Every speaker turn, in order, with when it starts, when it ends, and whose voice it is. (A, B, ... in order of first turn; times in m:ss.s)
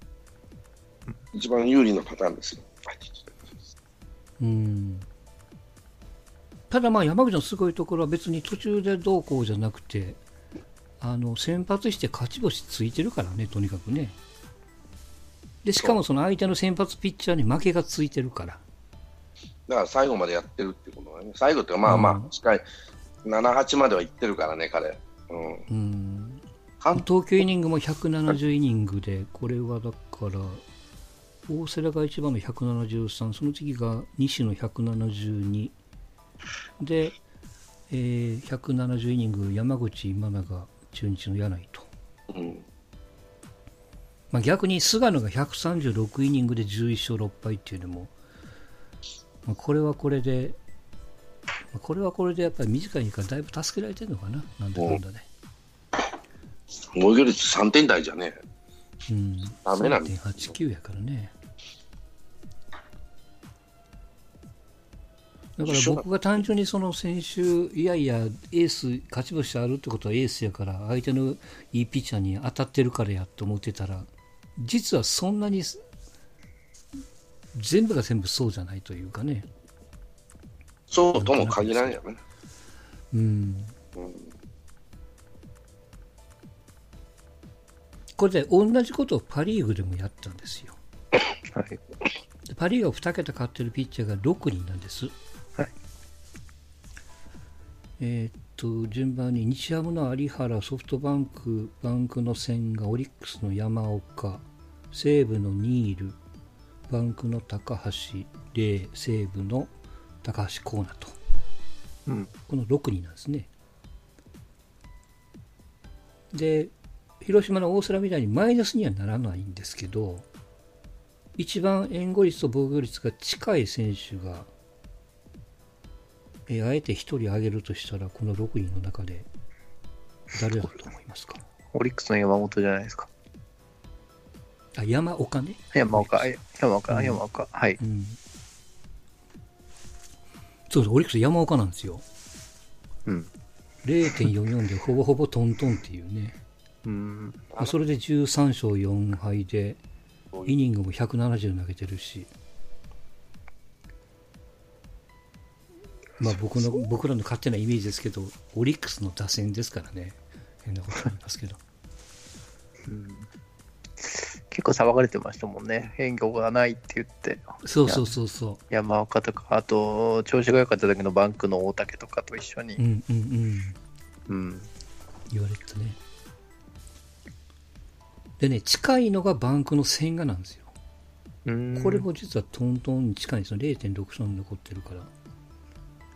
0:01.3-0:03.1 A
0:04.4-0:05.1 B
0:06.7-0:10.2 B
0:11.0-0:14.2 B
0:15.6-0:18.6 B
0:19.7-0:22.6 A
0:21.8-0:22.3 B
0:23.2-0:25.6 A
0:25.7-0:26.4 B
0:26.8-0:27.1 A
0:26.9-0:30.6 B
0:31.5-0:35.8 B
0:36.8-0:37.2 B
0:37.9-0:41.9 B
0:42.3-0:42.6 A
0:44.3-0:48.1 B
0:49.4-0:50.6 B
0:51.7-0:55.3 B
0:56.8-0:58.4 A
0:59.1-1:01.3 B
0:59.6-1:00.5 A
1:05.6-1:15.8 B
1:05.6-1:06.0 A
1:17.5-1:19.5 B
1:20.9-1:22.2 A
1:21.1-1:22.0 B
1:23.1-1:23.8 B
1:24.0-1:24.3 A
1:28.2-1:30.8 B
1:31.5-1:31.8 C
1:32.4-1:35.1 B
1:38.0-1:46.2 B
1:46.9-1:51.2 B
1:52.1-1:52.3 C
1:52.5-1:53.5 B
1:56.3-2:00.2 B
2:01.4-2:04.5 B
2:06.5-2:09.3 B
2:10.3-2:11.4 B
2:11.7-2:13.1 C
2:14.8-2:16.3 B
2:15.7-2:17.8 C
2:16.9-2:17.2 B
2:17.8-2:18.2 B
2:20.7-2:22.0 B
2:23.8-2:26.4 B
2:26.8-2:27.4 C
2:27.6-2:29.8 B
2:30.4-2:32.3 B
2:36.2-2:41.6 B
2:42.8-2:43.3 C
2:44.0-2:48.2 C
2:47.6-2:48.6 B
2:48.7-2:52.8 C
2:52.8-2:53.8 B
2:54.3-2:54.7 C
2:55.3-2:56.0 B
2:58.4-3:00.7 B
3:01.4-3:02.1 C
3:01.7-3:05.1 B